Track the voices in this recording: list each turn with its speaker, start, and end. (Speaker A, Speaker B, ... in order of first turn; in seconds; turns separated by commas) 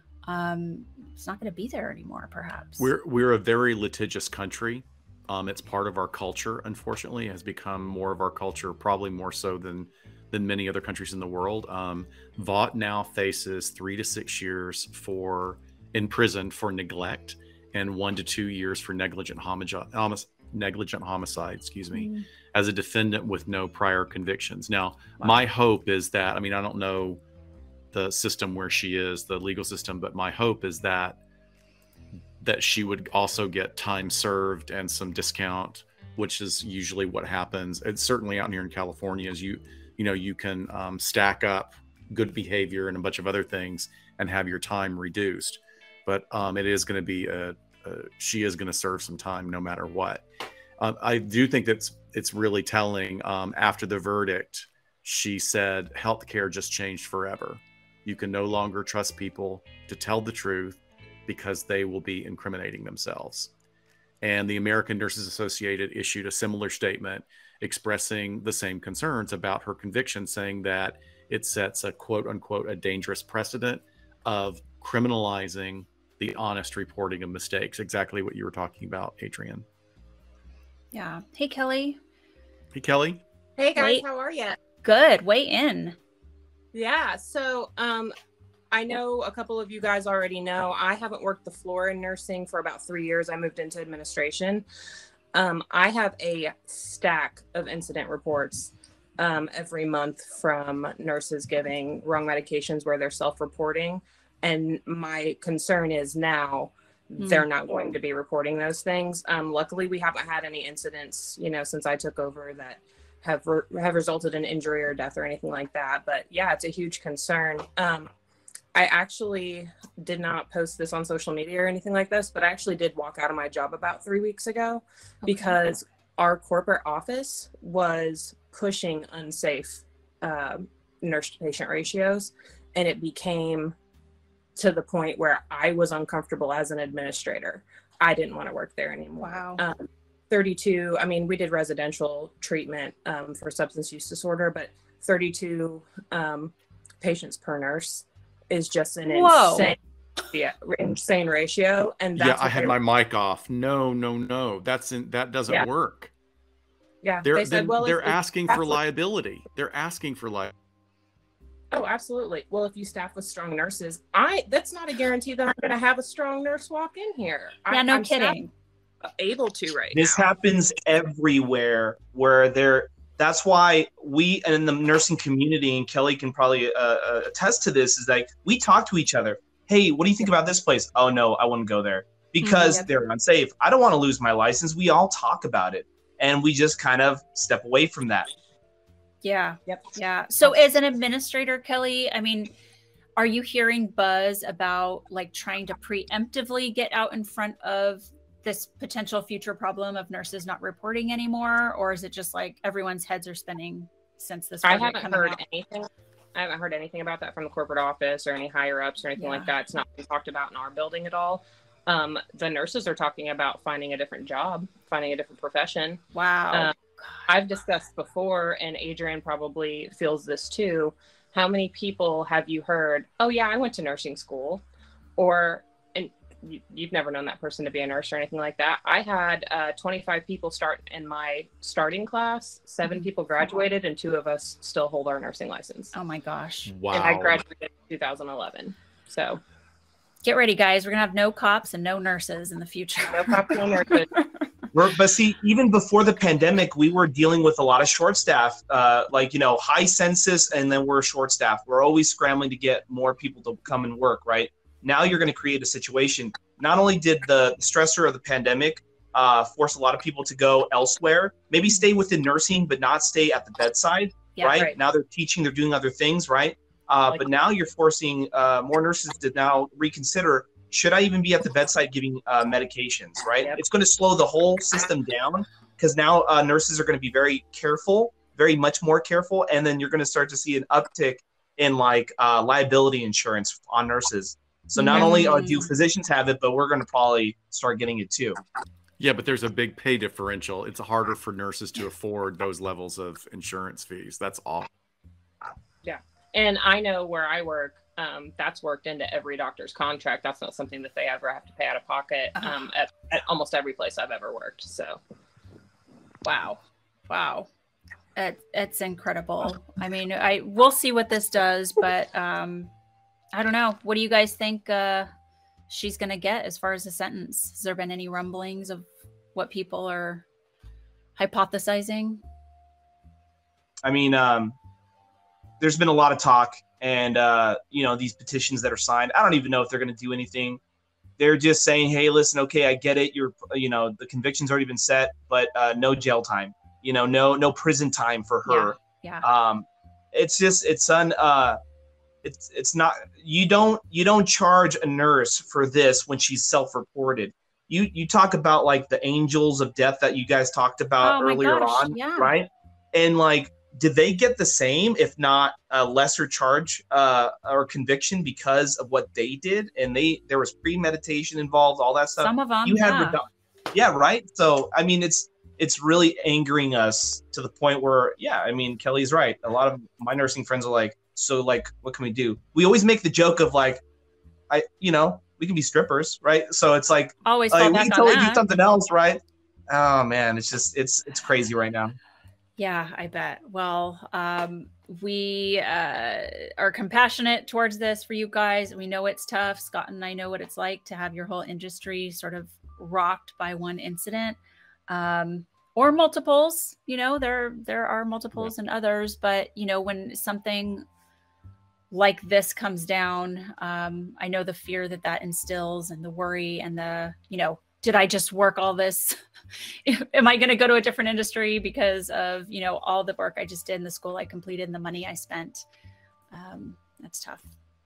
Speaker A: 0.2-2.9, Speaker B: 2.8-27.2, Speaker A: 21.9-22.2, Speaker B: 27.9-31.2, Speaker B: 32.4-50.2, Speaker B: 50.8-63.5, Speaker B: 64.2-79.6, Speaker A: 80.9-82.0, Speaker B: 82.7-83.2, Speaker C: 83.6-84.6, Speaker A: 83.8-84.0, Speaker A: 84.8-86.0, Speaker C: 86.7-88.1, Speaker C: 88.7-94.6, Speaker C: 95.3-118.1, Speaker A: 107.2-107.5, Speaker C: 118.7-133.7, Speaker A: 125.2-125.6, Speaker C: 134.6-149.8, Speaker A: 139.2-139.6, Speaker A: 149.1-149.7, Speaker C: 150.3-152.8, Speaker B: 152.2-156.1, Speaker C: 157.0-158.8, Speaker B: 157.2-160.5, Speaker C: 161.7-168.4, Speaker A: 167.7-168.5, Speaker C: 169.0-170.3, Speaker D: 169.9-188.3, Speaker A: 182.4-182.9, Speaker A: 189.2-192.5, Speaker A: 193.2-205.4, Speaker C: 204.6-216.0, Speaker A: 209.2-209.5, Speaker A: 216.1-216.7, Speaker C: 217.3-224.6, Speaker C: 225.2-235.9, Speaker A: 235.9-236.7, Speaker B: 236.7-237.4, Speaker C: 236.9-239.4, Speaker A: 240.2-244.2, Speaker C: 243.1-244.1, Speaker D: 244.7-288.4, Speaker A: 264.4-264.7, Speaker A: 284.8-285.7, Speaker B: 289.0-294.7, Speaker C: 295.8-305.0, Speaker A: 306.2-307.5, Speaker A: 308.1-312.7, Speaker A: 313.3-315.1, Speaker A: 315.7-320.2, Speaker A: 321.2-322.2, Speaker D: 323.8-324.6, Speaker D: 325.6-330.6, Speaker D: 331.2-341.6, Speaker A: 338.4-339.3, Speaker D: 342.2-373.8, Speaker A: 351.0-352.3, Speaker A: 362.2-363.2, Speaker D: 374.5-381.9, Speaker A: 377.2-378.4, Speaker A: 382.6-400.9, Speaker A: 401.9-409.2, Speaker A: 409.8-415.6, Speaker A: 416.3-417.5